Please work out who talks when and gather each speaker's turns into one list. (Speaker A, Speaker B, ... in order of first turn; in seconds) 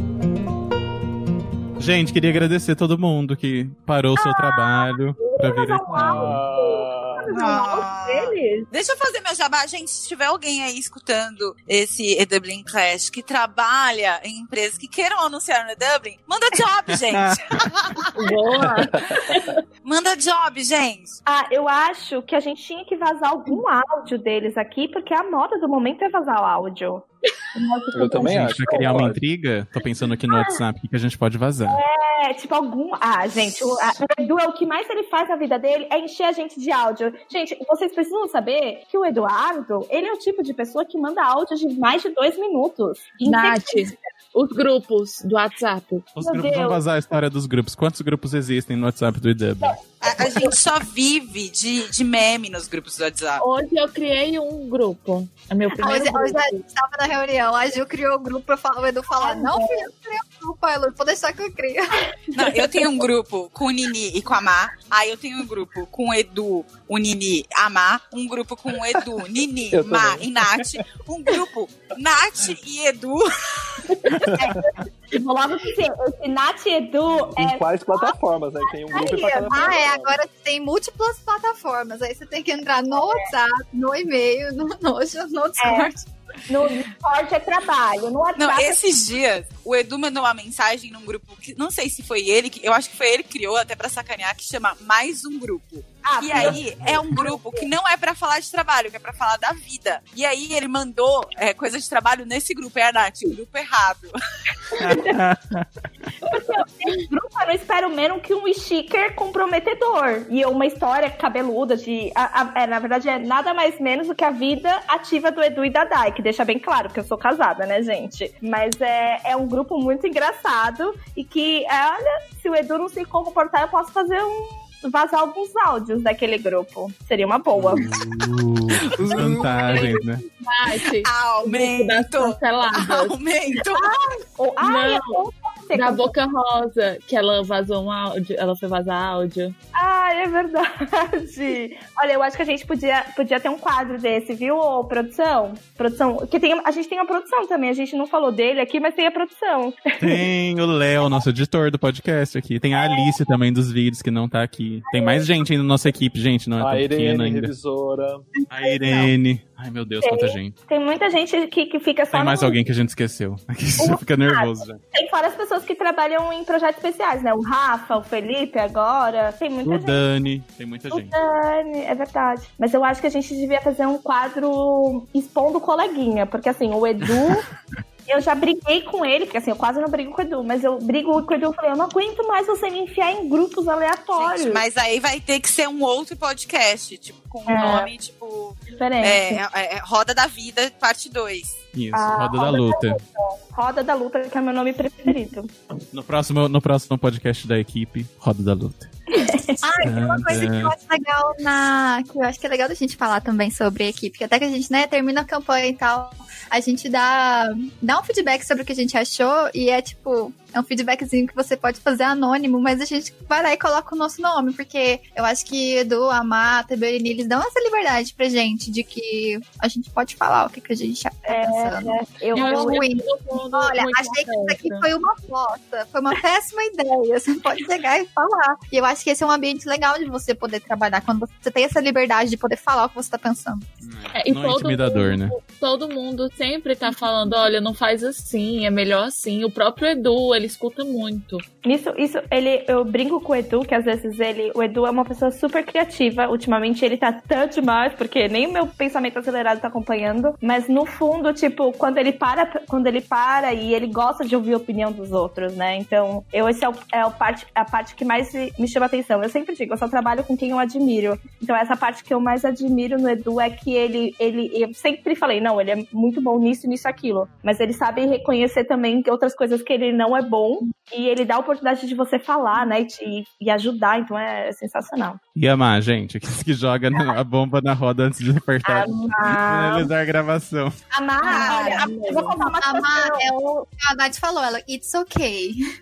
Speaker A: 1.8-6.4, 17.1-18.1, 28.2-31.8, 46.1-50.5, 104.7-105.7, 127.5-130.3, 150.0-157.5, 158.5-160.5, 162.1-164.8, 169.6-171.1, 191.7-193.0, 195.9-198.9, 199.8-200.7, 233.8-235.4, 275.4-280.7
Speaker B: 4.2-8.7, 21.2-29.0, 31.7-43.9, 46.2-46.8, 59.2-59.8, 62.3-62.8, 73.9-78.2, 78.9-79.8, 82.9-83.2, 85.6-85.9, 86.5-88.8, 96.0-96.6, 97.1-97.6, 104.7-105.2, 106.2-128.0, 133.7-136.1, 139.7-150.2, 152.7-153.1, 154.9-155.2, 160.0-162.6, 163.8-170.0, 170.9-177.4, 178.1-184.6, 187.5-187.9, 188.7-189.4, 191.9-195.5, 199.1-199.8, 221.3-222.8, 241.6-275.2, 278.6-279.9, 280.9-283.3
Speaker C: 5.9-7.4, 18.6-19.2, 27.9-29.2, 69.7-70.7, 74.1-74.6, 77.4-80.1, 156.6-158.3
Speaker D: 7.3-18.1, 19.8-21.2, 50.0-53.4, 62.3-73.9, 88.4-104.1, 128.9-129.9, 130.8-133.9, 184.2-191.6, 281.2-281.9
Speaker E: 18.1-19.6, 43.2-46.1, 53.4-56.6, 129.7-133.1, 134.6-139.5, 222.3-224.8, 234.1-241.4
Speaker F: 55.8-61.8, 78.9-86.1, 158.6-159.1, 199.6-233.7, 281.2-285.6